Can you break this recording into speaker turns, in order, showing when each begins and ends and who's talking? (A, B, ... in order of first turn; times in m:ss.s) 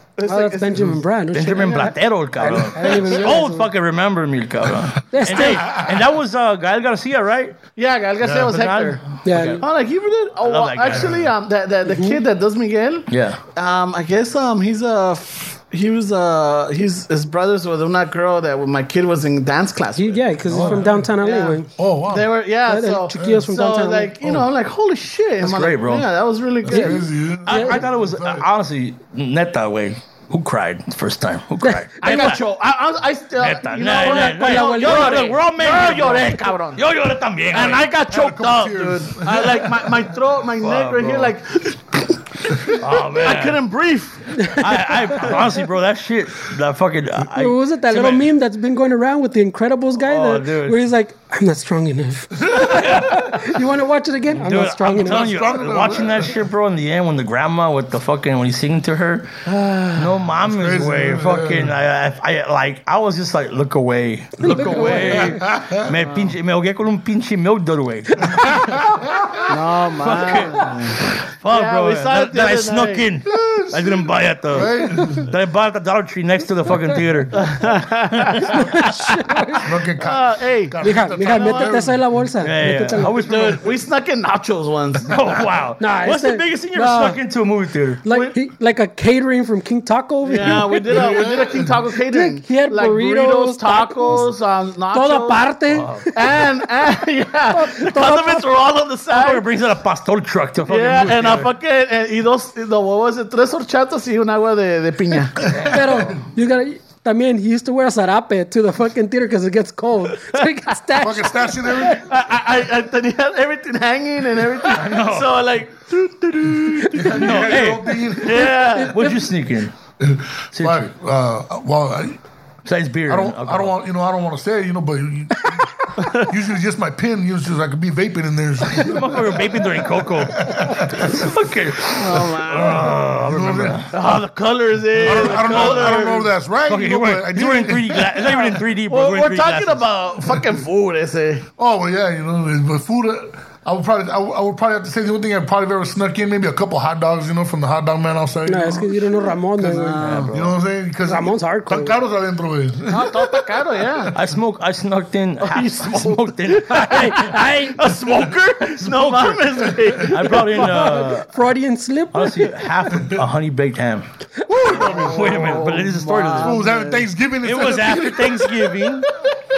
0:00.2-0:01.0 A
0:00.2-0:03.7 B
0:01.3-0:07.6 C
0:05.1-0:05.8 B
0:05.4-0:06.0 D
0:07.8-0:09.0 A
0:08.2-0:08.5 D
0:08.3-0:09.6 C
0:09.2-0:09.6 B
0:09.6-0:27.0 A
0:10.4-0:11.2 C
0:10.9-0:11.3 D
0:11.8-0:12.2 B
0:13.1-0:13.4 C
0:20.0-0:21.7 B
0:20.5-0:20.9 C
0:20.6-0:21.0 D
0:21.8-0:22.3 D
0:22.6-0:24.1 B
0:23.1-0:23.5 D
0:25.4-0:26.0 C
0:26.6-0:28.4 D
0:26.7-0:27.8 B
0:27.4-0:32.4 C
0:31.6-0:32.4 B
0:32.0-0:36.8 A
0:33.4-0:37.9 C
0:34.0-0:35.3 B
0:37.5-0:44.5 A
0:38.1-0:40.1 D
0:40.6-0:41.3 C
0:42.6-0:43.6 C
0:44.4-0:44.7 B
0:44.4-0:48.3 C
0:47.3-0:55.3 B
0:50.0-0:50.8 C
0:52.6-0:53.5 C
0:54.3-0:59.4 C
0:54.9-0:56.4 D
0:59.5-1:00.0 A
0:59.9-1:08.9 C
1:00.4-1:01.7 D
1:04.4-1:05.4 B
1:05.0-1:05.9 D
1:05.9-1:06.3 A
1:08.6-1:09.4 D
1:09.4-1:13.1 A
1:10.0-1:18.8 C
1:13.3-1:15.3 D
1:17.3-1:21.7 A
1:18.5-1:19.7 B
1:19.6-1:22.1 D
1:20.8-1:23.2 B
1:22.4-1:23.6 C
1:23.1-1:25.2 A
1:25.0-1:28.0 C
1:25.8-1:27.2 B
1:28.0-1:31.0 B
1:28.1-1:28.3 A
1:30.2-1:35.5 A
1:30.9-1:31.8 D
1:32.1-1:34.3 B
1:34.9-1:36.6 B
1:35.7-1:36.1 C
1:36.1-1:39.4 A
1:37.5-1:38.5 B
1:39.1-1:41.5 C
1:40.7-1:45.5 A
1:45.4-1:46.2 D
1:45.4-1:52.0 B
1:45.5-1:46.2 C
1:51.0-1:52.0 D
1:51.8-1:57.5 A
1:54.6-1:55.4 C
1:56.9-1:58.5 D
1:57.1-1:59.7 C
1:58.2-1:59.0 A
1:58.2-1:59.3 B
2:00.0-2:02.2 D
2:00.5-2:00.9 C
2:02.6-2:03.7 C
2:03.1-2:09.5 D
2:06.0-2:06.3 A
2:08.6-2:13.9 C
2:10.1-2:11.2 D
2:11.9-2:12.9 A
2:12.6-2:13.9 D
2:13.9-2:16.3 A
2:15.0-2:18.3 D
2:15.0-2:19.8 C
2:18.4-2:21.4 A
2:21.6-2:33.4 D
2:28.4-2:30.1 B
2:29.7-2:30.4 A
2:30.0-2:30.5 C
2:31.0-2:32.0 B
2:32.9-2:34.2 A
2:34.1-2:37.4 C
2:35.4-2:40.8 A
2:36.8-2:37.8 B
2:38.6-2:41.4 C
2:40.4-2:42.5 B
2:42.1-2:44.0 C
2:44.6-2:47.1 A
2:44.6-2:45.5 D
2:44.7-2:46.6 C
2:46.4-2:49.4 D
2:47.4-2:49.1 C